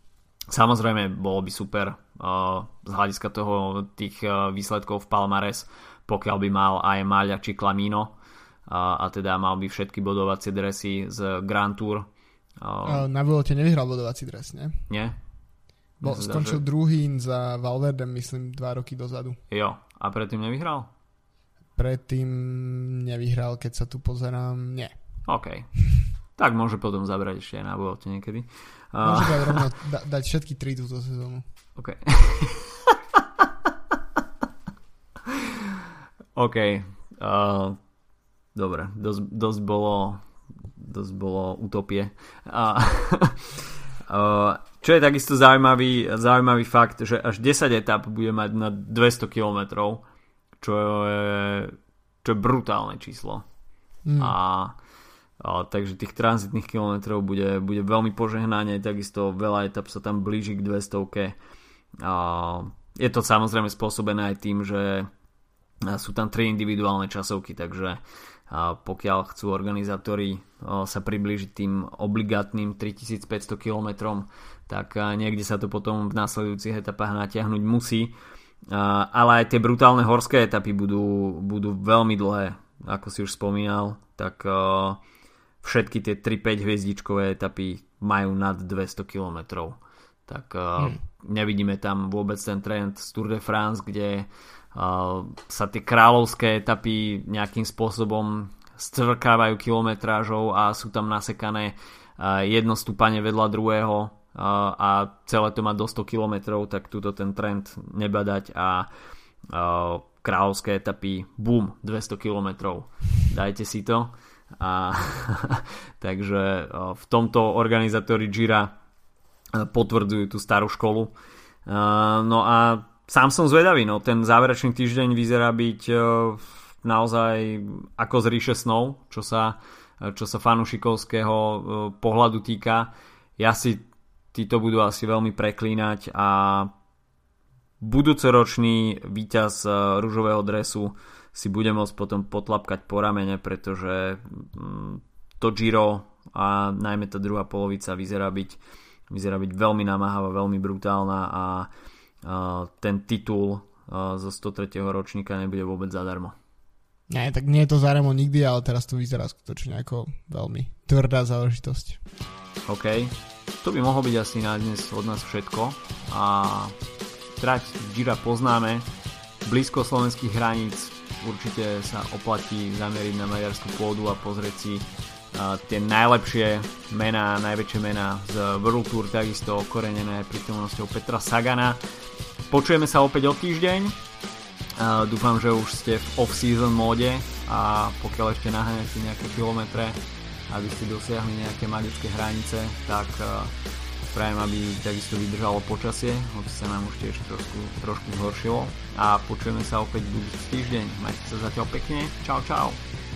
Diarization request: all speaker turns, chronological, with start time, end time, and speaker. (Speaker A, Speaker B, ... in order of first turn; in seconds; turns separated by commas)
Speaker A: 0.5-8.1, Speaker A: 8.7-12.1, Speaker A: 12.6-13.0, Speaker B: 12.8-14.8, Speaker A: 14.9-15.2, Speaker A: 16.0-16.6, Speaker B: 16.0-19.4, Speaker A: 19.5-20.9, Speaker B: 21.8-24.9, Speaker A: 25.3-25.7, Speaker A: 26.4-29.6, Speaker B: 29.0-31.4, Speaker A: 31.8-32.9, Speaker A: 36.3-37.8, Speaker A: 38.5-40.2, Speaker A: 40.8-50.0, Speaker A: 50.6-53.4, Speaker B: 54.0-54.3, Speaker A: 54.2-54.7, Speaker A: 55.4-61.3, Speaker A: 62.0-65.1, Speaker A: 65.8-78.1, Speaker A: 78.7-85.0, Speaker A: 85.6-108.9, Speaker A: 109.5-118.7, Speaker A: 119.5-121.1, Speaker A: 121.7-136.7, Speaker A: 137.8-148.6, Speaker A: 149.1-151.7, Speaker A: 152.2-156.3, Speaker B: 157.1-162.0, Speaker A: 162.7-166.7, Speaker A: 167.4-168.9, Speaker A: 169.4-181.8, Speaker A: 182.5-184.0, Speaker A: 184.8-193.5, Speaker A: 194.1-202.8